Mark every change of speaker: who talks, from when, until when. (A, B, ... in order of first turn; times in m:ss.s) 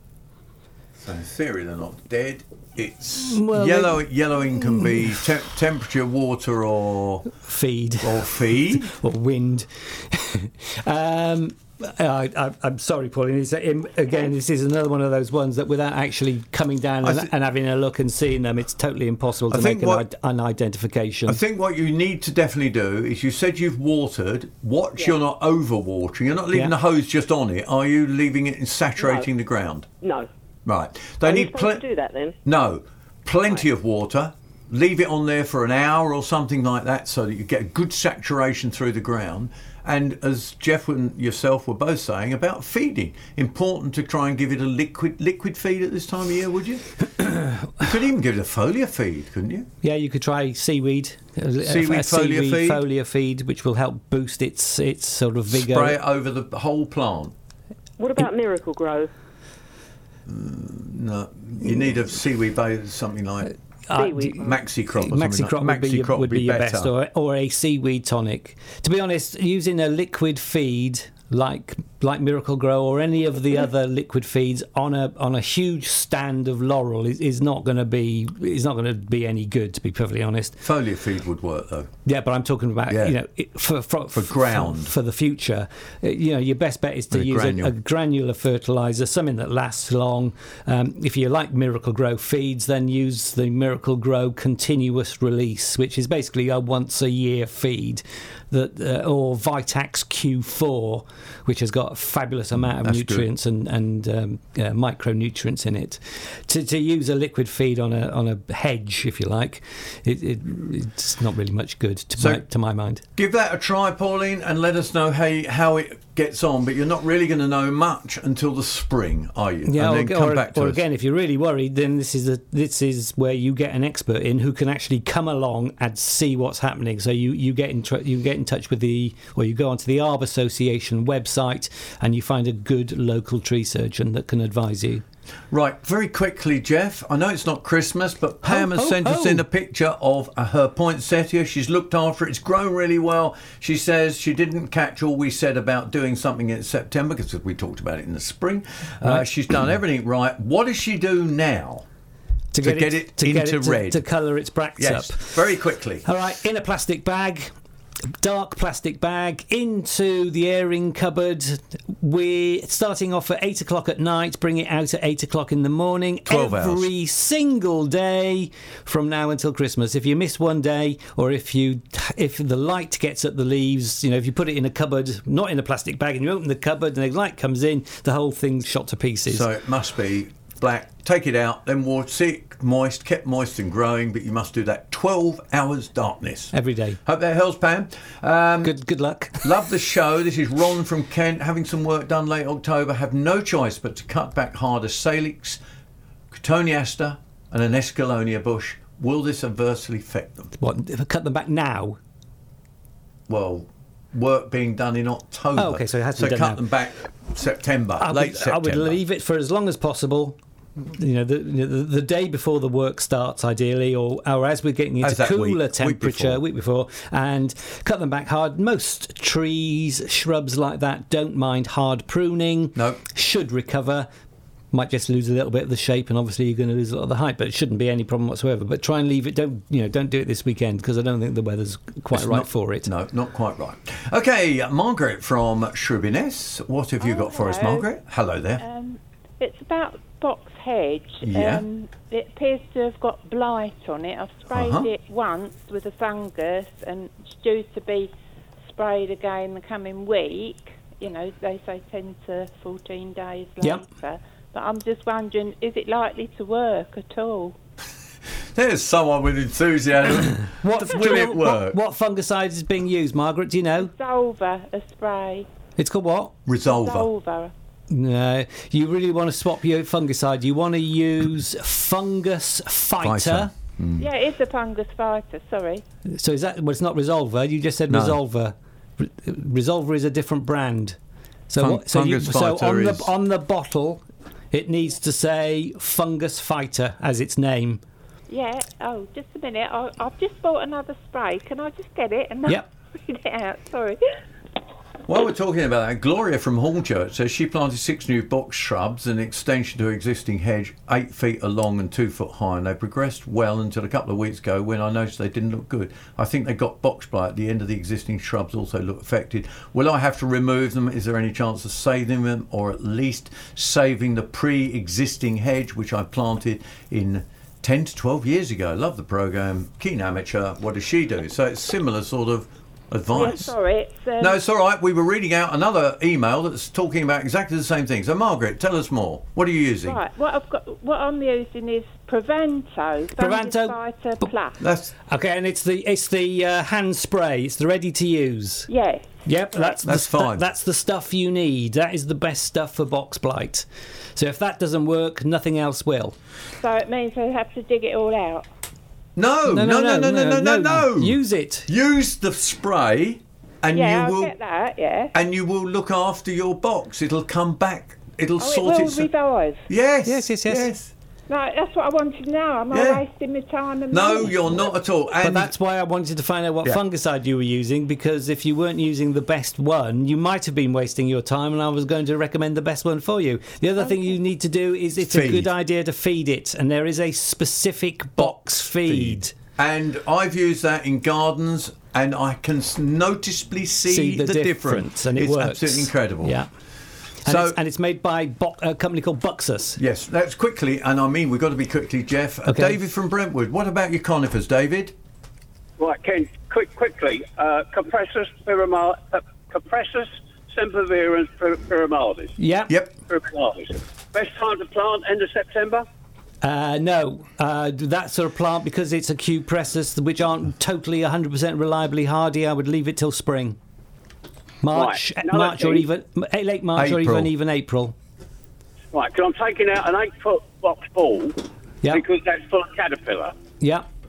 0:01.0-0:07.3 A
0:03.2-0:05.2 B
0:07.4-0:21.4 B
0:08.0-0:08.9 A
0:17.0-0:17.3 A
0:19.5-0:20.0 A
0:21.3-0:29.9 A
0:29.0-0:29.3 C
0:30.0-0:30.3 C
0:30.6-0:31.8 A
0:31.2-0:32.4 C
0:32.4-0:47.2 A
0:47.2-0:47.7 B
0:47.8-0:49.7 A
0:49.8-0:56.0 B
0:51.6-0:52.8 A
0:55.5-0:57.3 A
0:58.0-0:59.1 C
1:00.2-1:03.5 A
1:03.4-1:04.4 B
1:03.9-1:04.6 C
1:04.4-1:06.9 A
1:05.0-1:20.6 B
1:20.6-1:21.9 A
1:22.0-1:53.0 B
1:22.9-1:23.2 A
1:24.1-1:24.9 A
1:27.1-1:27.7 A
1:42.6-1:43.3 A
1:52.2-1:52.5 A
1:53.1-2:00.8 A
1:59.6-2:15.0 B
2:15.5-2:31.8 A
2:18.4-2:19.4 B
2:29.0-2:29.3 B
2:32.5-2:35.4 B
2:32.6-2:34.1 A
2:34.8-2:36.0 A
2:36.0-2:37.5 B
2:38.2-2:59.4 B
2:46.2-2:46.9 A
2:59.3-3:08.8 A
3:06.5-3:07.0 B
3:08.6-3:09.5 B
3:09.4-3:15.6 A
3:16.3-3:20.6 A
3:20.6-3:22.0 B
3:23.3-3:29.0 A
3:25.5-3:26.6 B
3:28.0-3:44.1 B
3:35.0-3:36.4 A
3:42.7-3:43.0 A
3:44.7-3:52.9 B
3:52.1-3:58.6 A
3:57.0-3:58.0 D
3:58.6-4:08.1 D
4:01.2-4:01.6 A
4:04.5-4:04.9 A
4:08.6-4:17.5 D
4:18.5-4:21.8 A
4:20.5-4:23.9 B
4:23.8-4:25.5 D
4:25.8-4:26.3 B
4:26.4-4:27.1 A
4:26.6-4:27.5 D
4:27.9-4:33.5 B
4:33.0-4:34.0 A
4:34.0-4:35.8 D
4:36.1-4:41.0 B
4:37.9-4:38.2 A
4:41.5-4:47.8 B
4:41.6-4:43.1 A
4:48.3-4:54.0 D
4:55.1-5:23.5 A
5:23.1-5:24.4 D
5:24.2-5:30.0 A
5:29.8-5:34.6 D
5:33.2-5:34.3 B
5:34.6-5:34.9 A
5:35.1-5:38.7 B
5:38.7-5:39.8 D
5:39.2-5:46.2 B
5:39.8-5:40.4 A
5:46.6-5:48.5 D
5:49.2-5:54.3 A
5:49.5-5:51.7 B
5:53.7-5:55.1 D
5:55.1-5:59.1 A
5:58.4-5:59.7 D
5:59.7-6:00.9 A
6:00.0-6:00.7 B
6:01.3-6:04.8 D
6:02.7-6:03.0 A
6:03.9-6:05.5 A
6:05.2-6:19.3 B
6:13.8-6:14.2 D
6:15.0-6:15.5 A
6:18.2-6:26.4 A
6:23.9-6:26.5 B
6:27.2-6:29.8 B
6:27.2-6:27.6 A
6:29.8-6:35.0 A
6:32.4-6:32.8 B
6:35.8-6:42.4 E
6:42.4-6:42.7 B
6:43.1-6:45.8 E
6:46.4-6:53.6 B
6:54.6-6:57.9 B
6:54.7-6:55.9 E
6:56.7-6:57.3 A
6:58.9-7:03.4 E
7:03.6-7:03.9 B